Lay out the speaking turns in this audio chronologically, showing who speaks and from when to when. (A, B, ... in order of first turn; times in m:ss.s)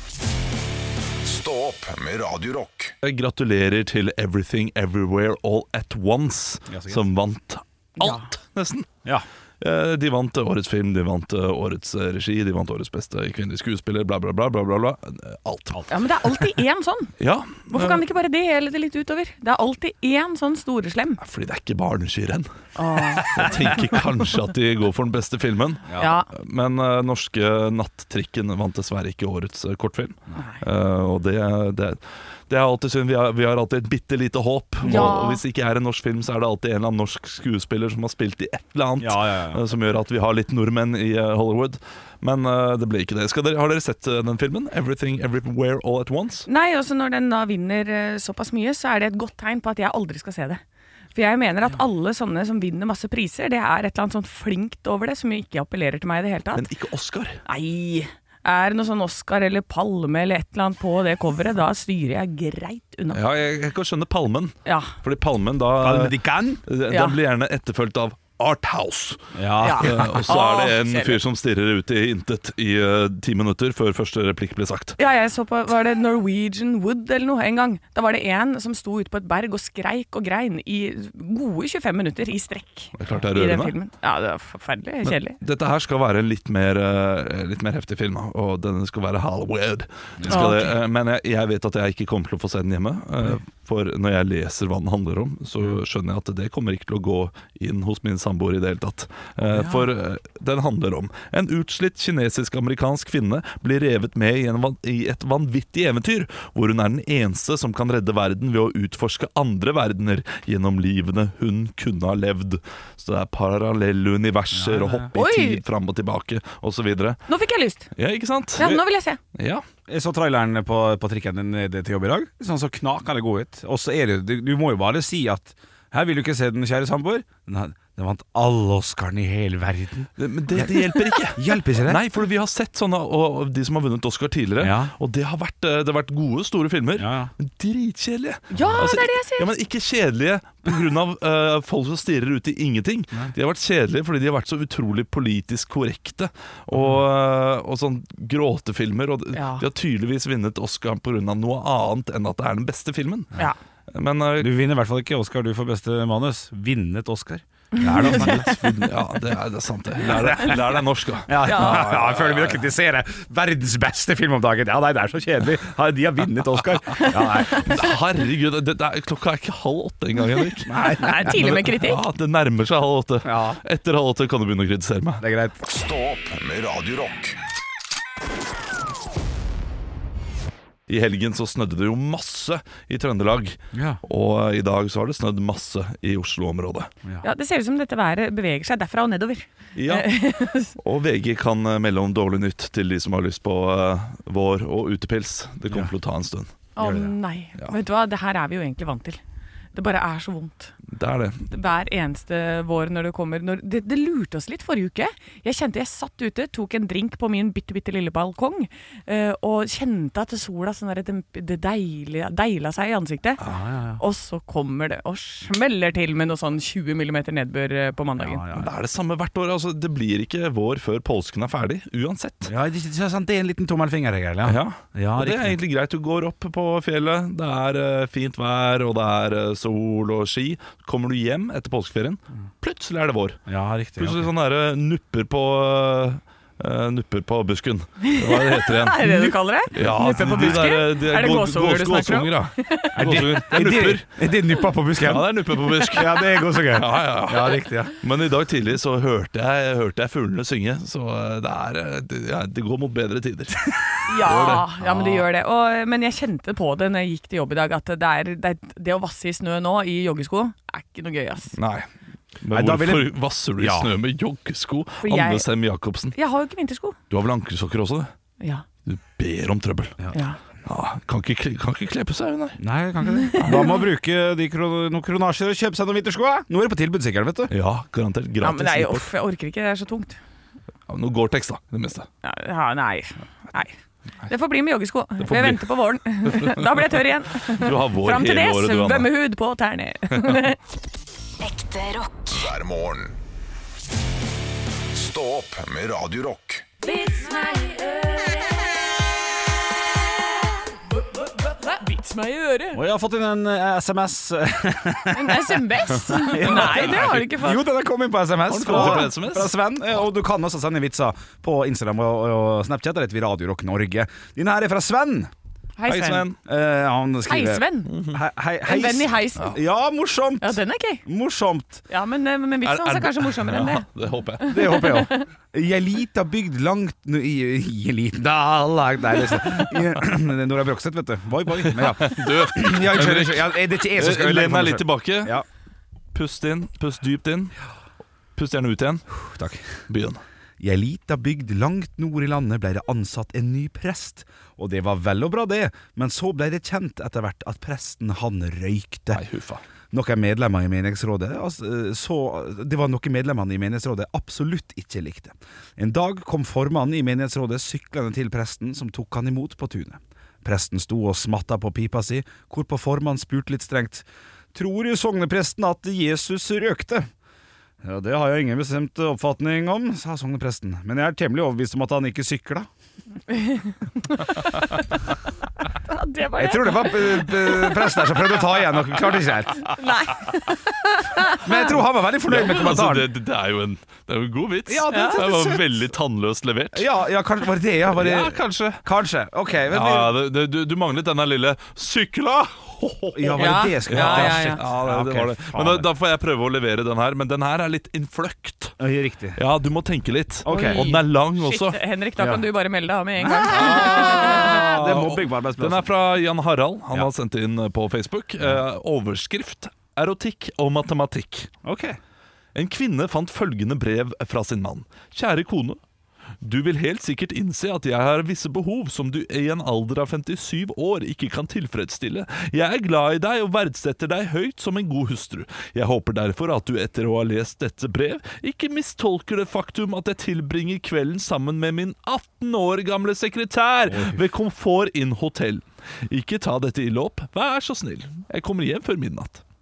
0:01.2-0:02.9 A
0:03.0-0:08.9 B
0:06.7-0:07.0 C
0:09.6-0:15.8 B
0:15.9-0:17.1 D
0:17.2-0:18.0 B
0:17.7-0:21.2 D
0:21.2-0:46.5 B
0:22.8-0:23.3 D
0:26.0-0:26.3 D
0:34.8-0:35.2 C
0:34.8-0:35.4 D
0:39.0-0:39.6 C
0:46.5-0:50.6 D
0:51.1-0:56.6 D
0:56.5-0:57.4 B
0:57.5-1:03.1 D
1:03.1-1:15.0 B
1:05.8-1:06.6 C
1:09.3-1:10.2 C
1:09.6-1:11.1 D
1:15.0-1:22.9 D
1:23.0-1:23.7 B
1:23.4-1:25.3 D
1:25.0-1:57.2 B
1:30.2-1:30.5 C
1:30.3-1:30.6 D
1:39.5-1:39.9 C
1:54.5-1:55.1 C
1:55.1-1:55.6 D
1:57.3-1:57.9 D
1:58.0-1:58.8 B
1:58.6-1:59.2 D
1:59.3-1:59.6 B
1:59.9-2:12.0 C
2:10.2-2:33.3 B
2:14.6-2:14.9 C
2:17.0-2:17.3 C
2:18.5-2:19.5 D
2:18.6-2:18.9 C
2:26.7-2:27.0 C
2:29.3-2:29.6 D
2:33.9-2:34.5 B
2:34.4-2:39.0 C
2:38.0-2:42.6 B
2:40.0-2:40.6 C
2:41.3-2:47.7 C
2:41.5-2:41.8 D
2:47.6-2:55.2 B
2:50.7-2:51.4 C
2:51.1-2:52.0 D
2:53.2-2:53.6 C
2:55.2-2:55.6 C
2:55.6-2:57.4 A
3:00.9-3:06.9 B
3:03.7-3:04.0 C
3:07.2-3:10.7 D
3:09.8-3:10.1 B
3:10.8-3:16.5 B
3:16.8-3:19.2 D
3:16.8-3:17.1 C
3:19.7-3:20.7 D
3:20.9-3:21.4 B
3:21.5-3:33.4 D
3:33.4-3:34.0 C
3:34.0-3:38.4 D
3:38.2-3:38.7 C
3:38.5-3:42.5 B
3:42.4-3:45.6 C
3:44.4-3:53.4 B
3:53.5-3:54.3 C
3:54.0-4:04.1 B
3:58.9-4:02.7 D
4:00.0-4:00.7 C
4:02.9-4:07.9 C
4:05.0-4:15.0 B
4:14.1-4:21.5 D
4:21.6-4:21.9 B
4:22.4-4:26.2 B
4:22.5-4:23.9 C
4:25.0-4:25.4 D
4:26.2-4:26.9 D
4:27.1-4:28.1 B
4:28.8-4:30.0 B
4:30.6-4:32.6 B
4:32.6-4:37.5 C
4:33.4-4:33.7 B
4:37.5-4:39.1 B
4:38.4-4:40.2 D
4:40.9-4:42.1 B
4:42.3-4:43.7 D
4:44.3-4:50.4 D
4:45.2-4:45.6 B
4:46.2-4:46.8 B
4:47.5-4:49.1 B
4:51.4-4:53.2 A
4:54.9-4:56.7 A
4:56.8-4:58.3 D
5:01.6-5:02.8 D
5:02.7-5:15.3 C
5:05.1-5:07.6 D
5:06.4-5:07.3 B
5:08.5-5:09.6 B
5:15.8-5:16.2 D
5:15.8-5:16.4 B
5:16.4-5:21.8 C
5:17.3-5:17.9 D
5:17.9-5:18.2 B
5:18.7-5:19.5 D
5:20.4-5:21.0 D
5:21.9-5:23.8 D
5:22.6-5:24.8 B
5:24.4-5:35.4 C
5:31.6-5:35.4 B
5:36.1-5:37.6 B
5:38.4-5:39.1 B
5:39.2-5:39.7 C
5:39.9-5:40.2 B
5:40.6-5:49.2 C
5:49.1-5:49.6 B
5:49.9-6:07.1 C
6:07.8-6:12.7 C
6:16.2-6:16.8 D
6:16.4-6:19.7 C
6:19.8-6:20.2 D
6:21.3-6:23.1 C
6:22.2-6:26.9 B
6:24.7-6:25.8 C
6:24.9-6:25.2 D
6:26.7-6:30.2 C
6:27.9-6:28.8 B
6:29.7-6:38.8 B
6:33.1-6:35.9 C
6:33.4-6:34.6 D
6:38.8-6:39.4 C
6:39.4-6:41.8 B
6:40.4-6:40.8 C
6:40.5-6:41.0 D
6:41.5-6:44.2 D
6:43.2-6:45.9 C
6:43.5-6:51.5 B
6:51.6-6:52.0 C
6:52.5-6:55.8 B
6:56.4-7:19.4 B
7:13.9-7:14.2 C